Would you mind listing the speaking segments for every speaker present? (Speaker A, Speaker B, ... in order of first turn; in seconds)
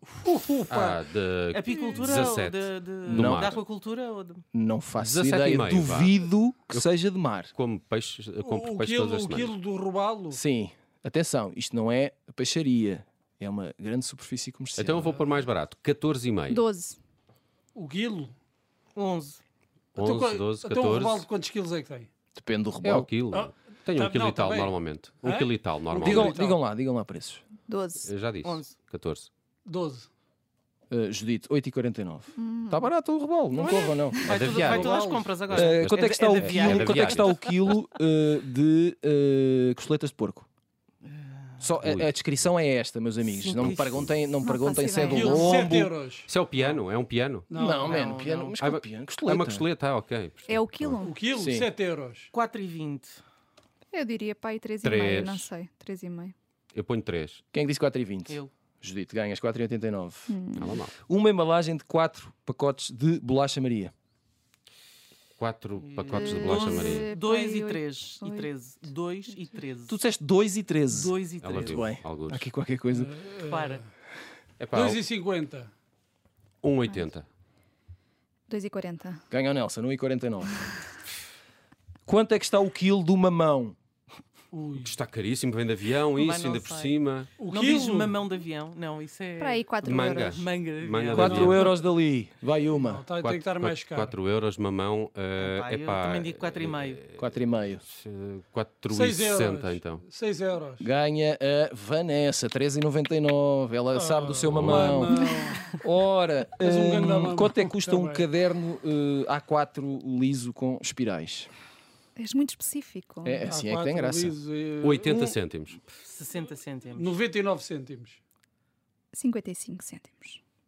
Speaker A: 0.1-1.1, 8.4-10.4, 17.8-18.3, 19.9-22.1, 23.3-26.6, 29.7-30.1, 34.6-35.4, 45.1-46.3, 47.5-47.9, 51.0-52.3, 72.9-73.8, 74.7-75.7, 84.5-85.0, 87.4-88.2, 91.2-91.6, 92.7-94.2, 98.9-100.9, 103.9-105.8, 106.6-108.3, 113.5-115.4, 117.0-118.2
Speaker B: 0.7-3.6, 5.0-6.9, 7.5-9.5, 14.8-16.6, 20.0-21.2, 22.8-26.4, 28.0-29.3, 34.2-37.7, 41.8-42.1, 46.3-47.5, 48.6-51.0, 54.8-55.5, 56.7-57.4, 60.6-60.9, 65.4-67.1, 71.4-72.5, 74.6-75.0, 76.6-77.3, 84.8-87.3, 89.8-91.7, 93.2-100.0, 104.5-105.0, 114.8-115.8
Speaker C: 1.5-4.4, 18.9-19.4, 28.4-28.8, 33.6-37.4, 41.0-41.6, 43.2-44.2, 46.5-46.8, 47.8-48.6, 52.3-53.2, 65.8-70.0, 70.9-71.9, 73.4-73.8, 86.2-91.7, 95.4-97.0, 115.9-117.1
Speaker D: 3.1-3.6, 4.5-7.5, 10.3-15.2, 22.4-23.1, 26.0-27.4, 30.9-34.2, 35.5-40.5, 41.6-45.9, 47.5-49.6, 51.4-51.7, 57.5-60.4, 61.1-63.9, 69.9-73.2, 79.3-80.7, 82.1-83.8, 91.2-93.1, 97.2-97.8, 100.8-111.5, 113.2-114.3
Speaker E: 16.5-17.0, 27.7-28.1, 32.4-32.9, 44.4-45.6, 50.5-51.2, 53.9-56.3, 60.3-60.8, 66.2-68.5, 78.5-79.2, 89.4-90.4, 112.2-113.5, 119.1-120.4